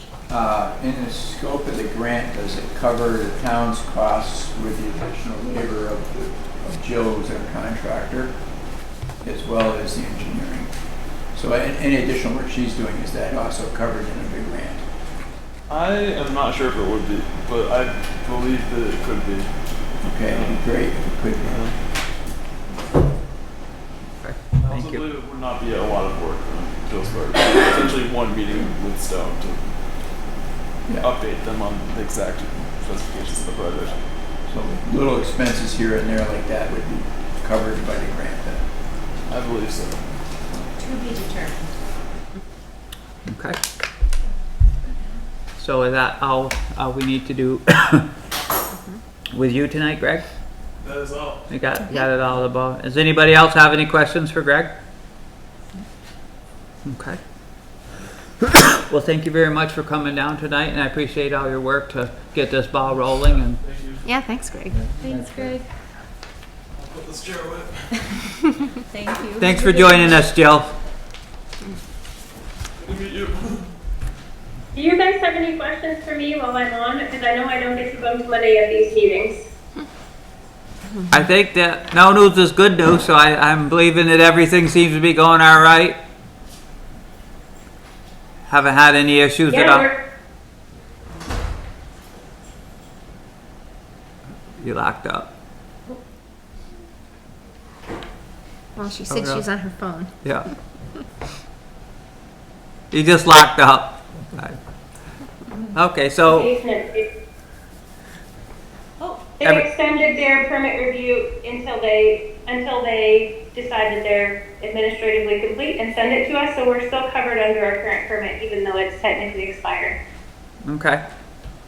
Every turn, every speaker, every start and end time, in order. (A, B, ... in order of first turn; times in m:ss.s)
0:00.3-0:08.4 A
0:09.2-0:10.7 A
0:11.3-0:14.8 A
0:15.7-0:19.5 B
0:20.0-0:21.6 A
0:20.2-0:20.7 B
0:21.4-0:21.7 B
0:24.2-0:25.0 C
0:24.6-0:29.6 B
0:31.0-0:34.0 B
0:34.5-0:38.6 A
0:39.3-0:40.0 B
0:40.8-0:41.5 D
0:43.3-0:43.6 C
0:45.6-0:48.1 C
0:48.7-0:49.0 D
0:49.3-0:50.2 C
0:50.8-0:51.5 B
0:51.5-0:54.7 C
0:56.8-0:57.2 C
0:58.9-1:03.6 C
1:03.6-1:04.0 B
1:04.0-1:04.8 D
1:04.7-1:05.6 B
1:05.0-1:05.6 E
1:06.7-1:07.9 B
1:08.9-1:10.2 E
1:09.4-1:10.7 C
1:12.8-1:13.7 B
1:14.7-1:19.5 F
1:21.1-1:26.0 C
1:28.5-1:29.9 C
1:29.5-1:29.9 F
1:34.6-1:35.3 C
1:38.8-1:40.1 D
1:39.1-1:39.4 C
1:40.2-1:40.5 C
1:42.9-1:44.6 C
1:45.7-1:46.5 C
1:46.3-1:47.0 F
1:49.0-1:49.3 E
1:49.4-2:00.0 F
1:49.4-1:49.7 C
2:00.6-2:01.0 C